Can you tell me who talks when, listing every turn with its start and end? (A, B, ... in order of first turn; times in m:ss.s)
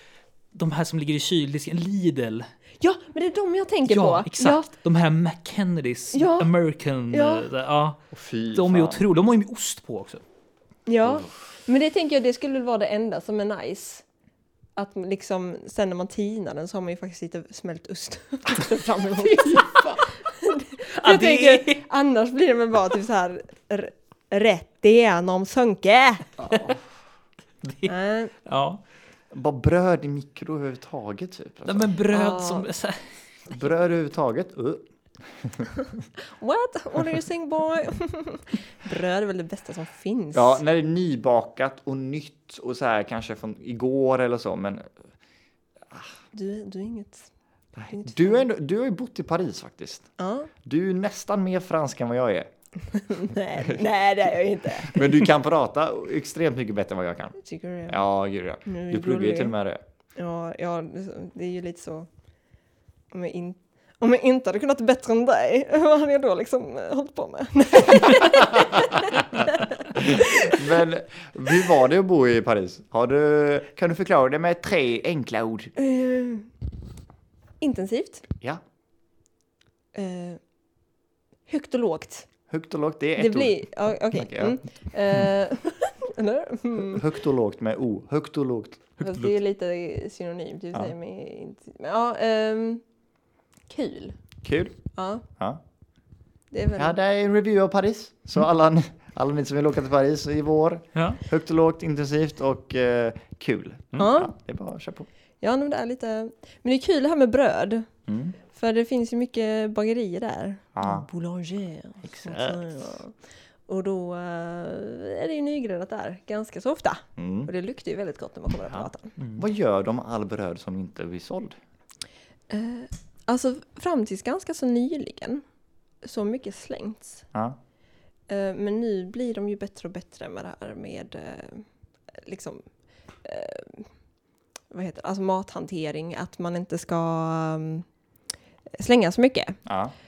0:00.5-0:02.5 A
0:02.8-0:04.7 B
0:03.9-0:08.0 A
0:06.1-0:06.5 B
0:07.1-0:07.5 B
0:08.1-0:09.0 C
0:08.5-0:10.2 A
0:10.9-0:14.0 B
0:14.8-0:26.4 B
0:21.0-0:21.8 A
0:26.4-0:26.8 C
0:27.6-0:28.8 A
0:27.9-0:28.3 B
0:29.3-0:31.9 C
0:31.6-0:33.6 A
0:32.1-0:32.7 B
0:33.5-0:35.7 C
0:36.2-0:40.6 B
0:40.3-0:44.9 C
0:46.3-0:47.3 B
0:47.8-0:50.1 C
0:47.9-0:48.4 B
0:50.2-0:50.5 B
0:50.6-0:52.5 C
0:52.9-0:55.3 B
0:54.8-0:57.4 C
0:57.4-0:58.0 B
0:57.9-0:59.8 C
0:58.7-0:59.6 B
1:00.2-1:02.1 B
1:03.1-1:10.7 B
1:08.2-1:09.2 C
1:09.9-1:15.7 C
1:15.8-1:16.5 B
1:17.6-1:18.2 B
1:19.9-1:20.4 B
1:21.5-1:22.3 B
1:22.5-1:24.6 C
1:23.2-1:27.1 B
1:26.8-1:29.0 C
1:29.0-1:32.8 B
1:33.7-1:34.2 B
1:34.4-1:34.8 C
1:35.0-1:35.2 B
1:36.5-1:37.0 B
1:36.8-1:45.1 C
1:41.0-1:41.2 A
1:44.0-1:44.3 B
1:45.4-1:47.9 B
1:48.1-1:48.4 C
1:48.5-1:53.1 B
1:50.8-1:51.1 C
1:52.0-1:53.0 C
1:53.7-1:59.2 B
1:57.2-1:57.5 C
1:58.7-2:01.6 C
1:59.2-1:59.4 A
2:02.5-2:05.4 B
2:06.0-2:07.3 B
2:08.3-2:12.7 B
2:13.2-2:13.9 B
2:14.7-2:17.9 B
2:18.8-2:19.6 B
2:19.7-2:19.9 C